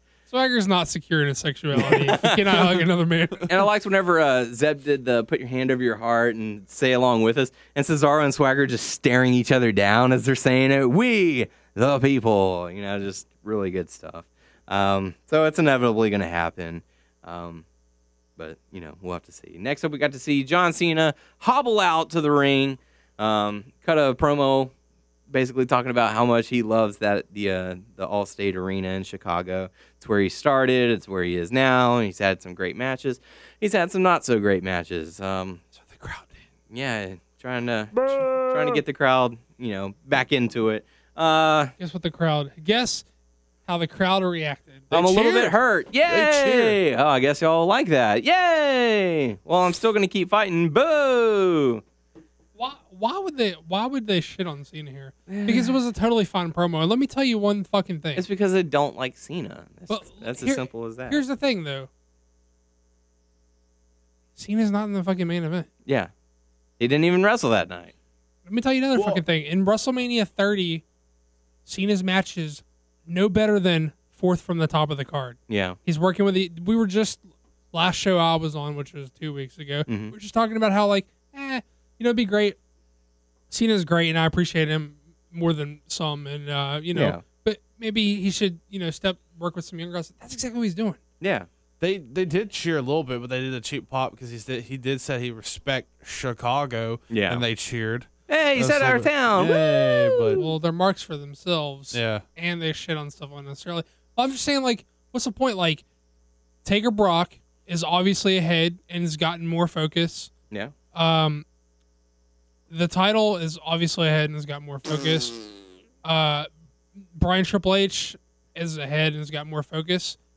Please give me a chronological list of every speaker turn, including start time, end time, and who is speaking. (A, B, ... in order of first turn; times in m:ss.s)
0:00.3-0:03.5 A
0:01.9-0:02.6 B
0:03.4-0:17.6 B
0:18.4-0:24.7 B
0:25.3-0:35.6 B
0:35.7-0:36.4 A
0:36.7-0:41.7 B
0:37.9-0:38.8 C
0:41.8-0:43.0 A
0:43.6-0:44.9 A
0:44.9-0:45.5 C
0:44.9-0:51.8 B
0:46.0-0:46.8 C
0:52.6-0:58.2 A
0:55.3-0:55.7 B
0:58.2-1:01.2 B
0:59.9-1:01.9 A
1:04.4-1:05.7 A
1:05.8-1:06.1 B
1:06.8-1:07.9 B
1:08.4-1:10.8 A
1:08.9-1:09.2 C
1:11.6-1:22.6 A
1:15.5-1:15.8 B
1:19.9-1:20.1 B
1:23.5-1:31.0 A
1:26.9-1:27.2 B
1:31.2-1:31.5 B
1:31.8-1:40.4 C
1:37.1-1:37.4 B
1:38.3-1:40.4 B
1:40.4-1:45.8 A
1:41.9-1:42.2 C
1:46.6-1:50.3 A
1:50.9-1:51.4 A
1:52.7-1:55.4 A
1:56.0-2:00.2 A